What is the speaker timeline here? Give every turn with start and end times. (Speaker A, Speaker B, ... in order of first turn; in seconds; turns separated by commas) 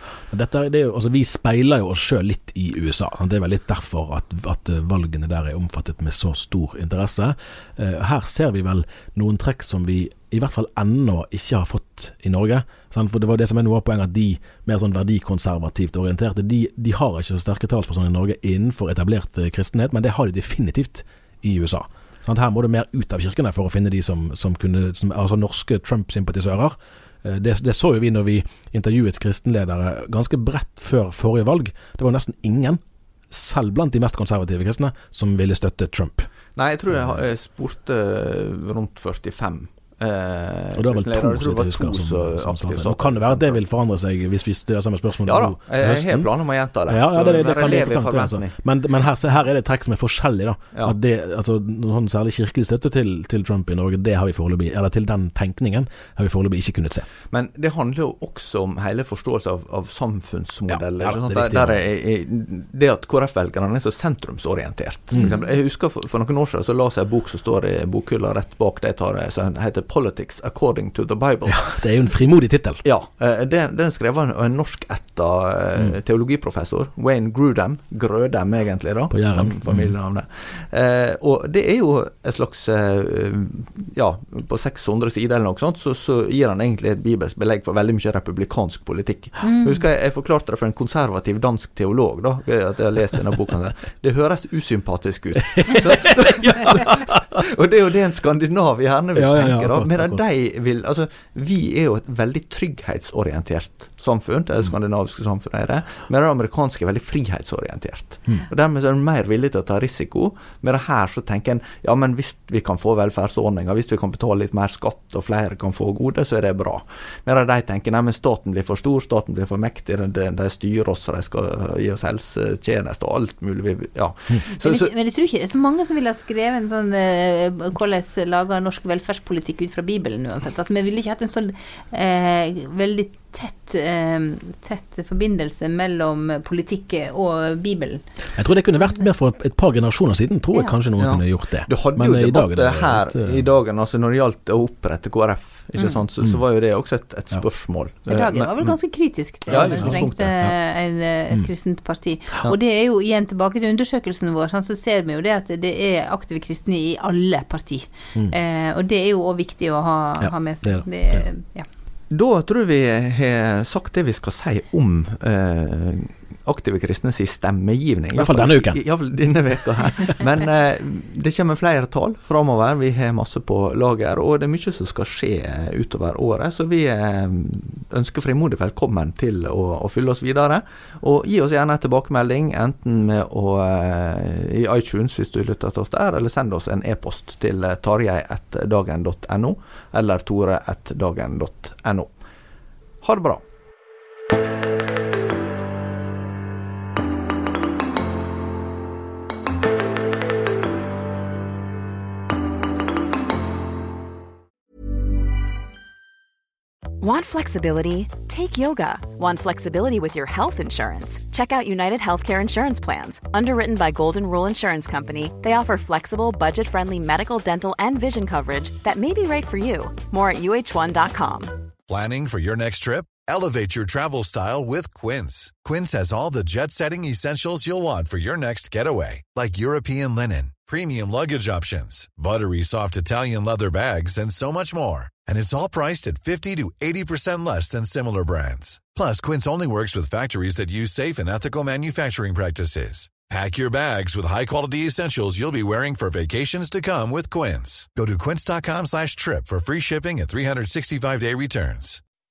Speaker A: 0.3-36.3, Speaker B: 36.5-43.6, Speaker A: 36.9-37.2, Speaker A: 40.7-46.3, Speaker B: 45.2-48.6, Speaker A: 46.9-57.1, Speaker B: 57.3-71.8, Speaker A: 60.7-61.8, Speaker C: 65.2-65.5, Speaker A: 71.5-72.8, Speaker B: 72.8-124.9, Speaker A: 79.1-79.9, Speaker C: 89.4-89.8, Speaker A: 95.5-97.4, Speaker A: 99.2-100.2, Speaker C: 124.5-138.0, Speaker A: 138.3-143.4, Speaker B: 141.0-148.5, Speaker C: 148.1-161.7, Speaker B: 149.5-150.3, Speaker A: 149.5-150.5, Speaker A: 160.2-161.2, Speaker B: 162.1-192.1, Speaker A: 168.1-168.8, Speaker B: 193.0-193.4, Speaker D: 207.0-221.5, Speaker E: 221.9-252.0